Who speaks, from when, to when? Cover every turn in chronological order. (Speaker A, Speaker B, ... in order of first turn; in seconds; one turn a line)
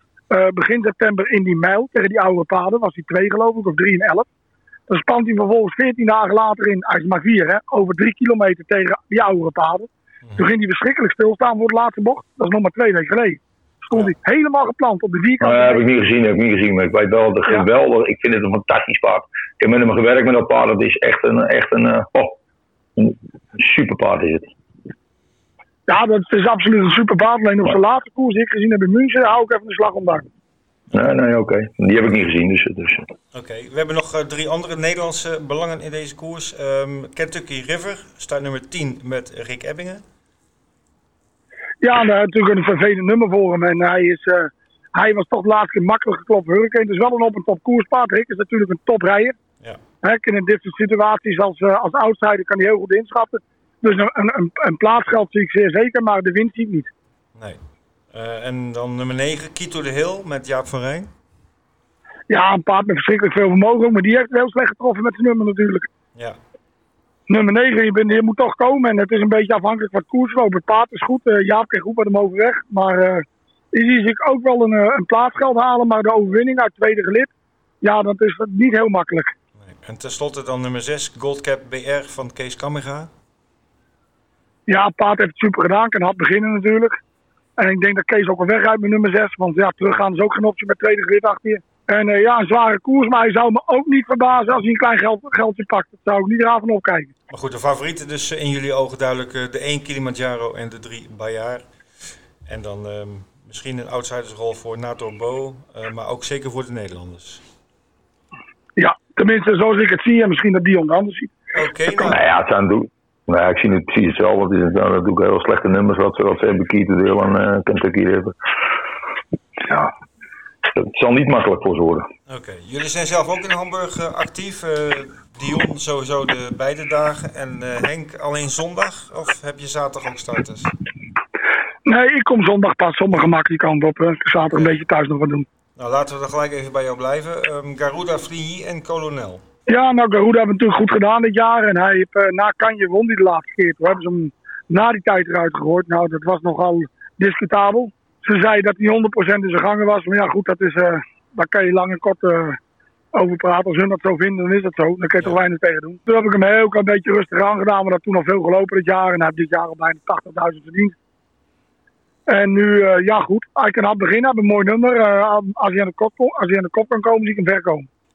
Speaker A: 0.3-4.2
Speaker A: 4.9-9.9
Speaker B: 10.2-10.5
Speaker A: 10.4-13.4
Speaker A: 13.9-15.8
Speaker C: 15.4-22.4
Speaker C: 23.0-24.5
Speaker A: 25.9-30.2
Speaker C: 30.9-33.0
Speaker B: 33.3-40.0
Speaker A: 41.8-44.4
Speaker A: 44.9-49.3
Speaker A: 50.0-56.9
Speaker B: 58.1-61.1
Speaker A: 62.3-65.8
Speaker A: 67.3-73.2
Speaker A: 73.7-77.3
Speaker A: 77.8-79.3
Speaker B: 79.6-83.1
Speaker A: 84.7-86.9
Speaker A: 87.6-97.1
Speaker B: 97.3-101.6
Speaker B: 102.5-107.4
Speaker A: 108.8-111.3
Speaker B: 111.5-112.2
Speaker C: 111.9-118.3
Speaker C: 119.7-119.9
Speaker C: 120.7-122.1
Speaker B: 122.3-130.7
Speaker A: 131.9-135.4
Speaker B: 134.5-134.8
Speaker B: 135.8-139.4
Speaker A: 139.7-152.5
Speaker A: 153.2-160.9
Speaker A: 162.3-167.8